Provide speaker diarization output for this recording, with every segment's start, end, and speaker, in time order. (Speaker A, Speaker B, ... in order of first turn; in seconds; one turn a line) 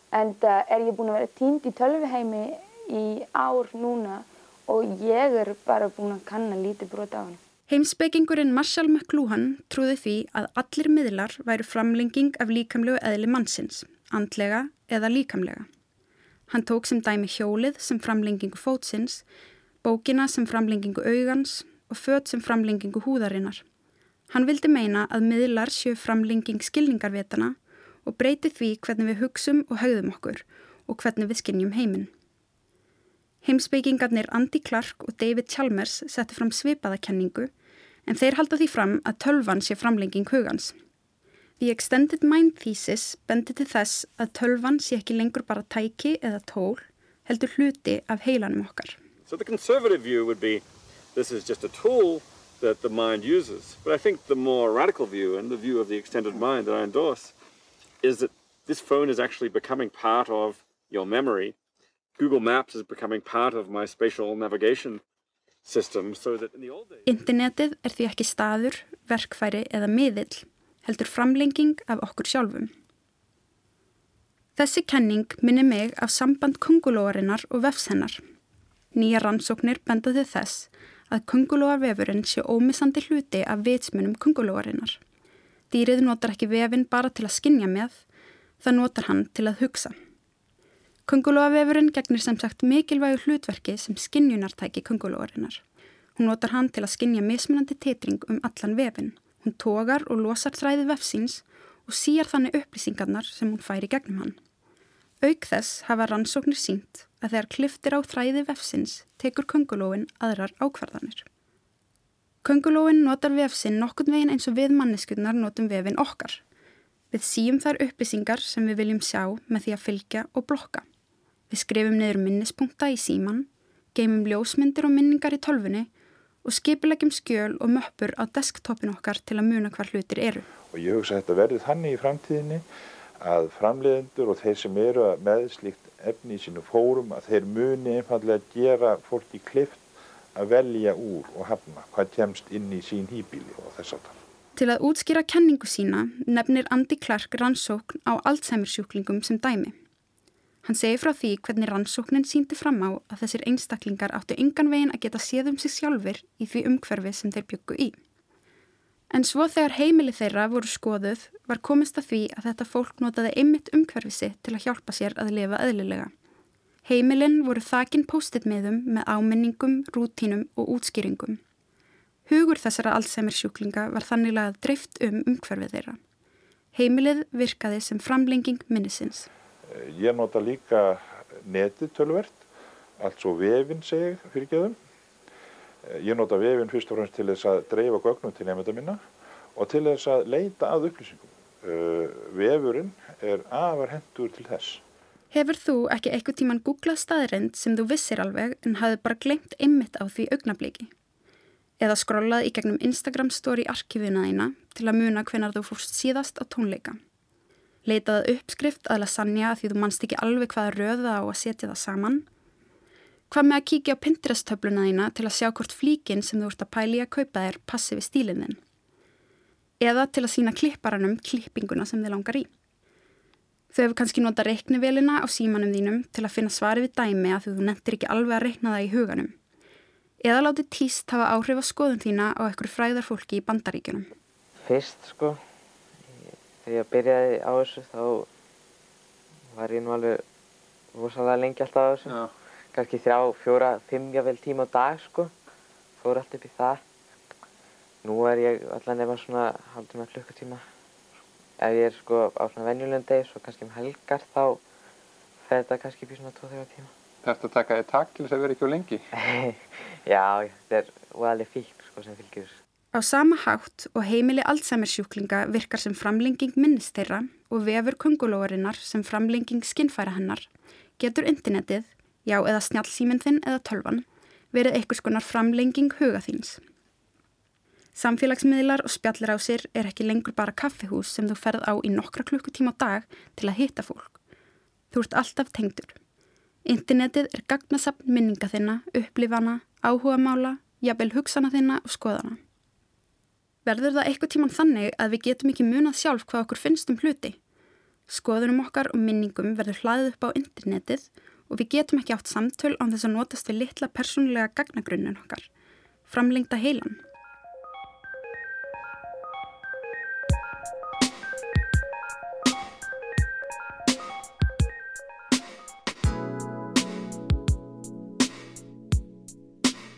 Speaker A: 0.1-7.4
Speaker B: 7.7-15.7
Speaker B: 16.5-19.2
Speaker B: 19.8-23.6
Speaker B: 24.3-32.1
Speaker B: 33.4-37.5
Speaker B: 38.1-40.8
Speaker B: 41.6-49.0
Speaker C: 49.3-50.6
Speaker C: 51.1-57.3
Speaker C: 58.0-61.5
Speaker C: 62.2-65.0
Speaker C: 65.7-67.0
Speaker B: 67.1-72.7
Speaker B: 74.6-78.2
Speaker B: 79.0-85.0
Speaker B: 85.7-88.0
Speaker B: 88.6-90.0
Speaker B: 91.1-95.6
Speaker B: 96.2-104.4
Speaker B: 105.2-111.2
Speaker B: 112.4-116.4
Speaker B: 117.1-120.8
Speaker B: 121.5-125.9
Speaker B: 126.5-130.5
Speaker D: 130.7-132.7
Speaker D: 133.2-144.2
Speaker B: 144.6-149.7
Speaker B: 150.7-158.0
Speaker B: 159.1-166.1
Speaker B: 166.8-171.4
Speaker B: 172.3-176.0
Speaker B: 176.7-179.3
Speaker D: 179.7-182.5
Speaker D: 183.0-184.8
Speaker D: 185.8-194.8
Speaker B: 195.3-200.9
Speaker B: 201.8-207.0
Speaker B: 207.9-212.2
Speaker B: 213.3-218.6
Speaker B: 219.8-222.5
Speaker B: 223.7-229.3
Speaker B: 230.2-234.1
Speaker E: 234.6-235.4
Speaker E: 236.1-238.3
Speaker E: 239.5-240.2
Speaker E: 240.9-242.2
Speaker F: 242.1-242.3
Speaker E: 242.7-245.3
Speaker E: 246.0-246.8
Speaker E: 248.0-250.7
Speaker E: 251.6-254.6
Speaker E: 255.5-256.9
Speaker F: 257.2-259.0
Speaker E: 259.2-262.6
Speaker B: 262.9-270.5
Speaker B: 271.0-276.6
Speaker B: 278.0-284.2
Speaker B: 284.9-286.0
Speaker B: 286.7-292.4
Speaker B: 293.6-297.4
Speaker B: 298.1-305.5
Speaker B: 306.1-307.0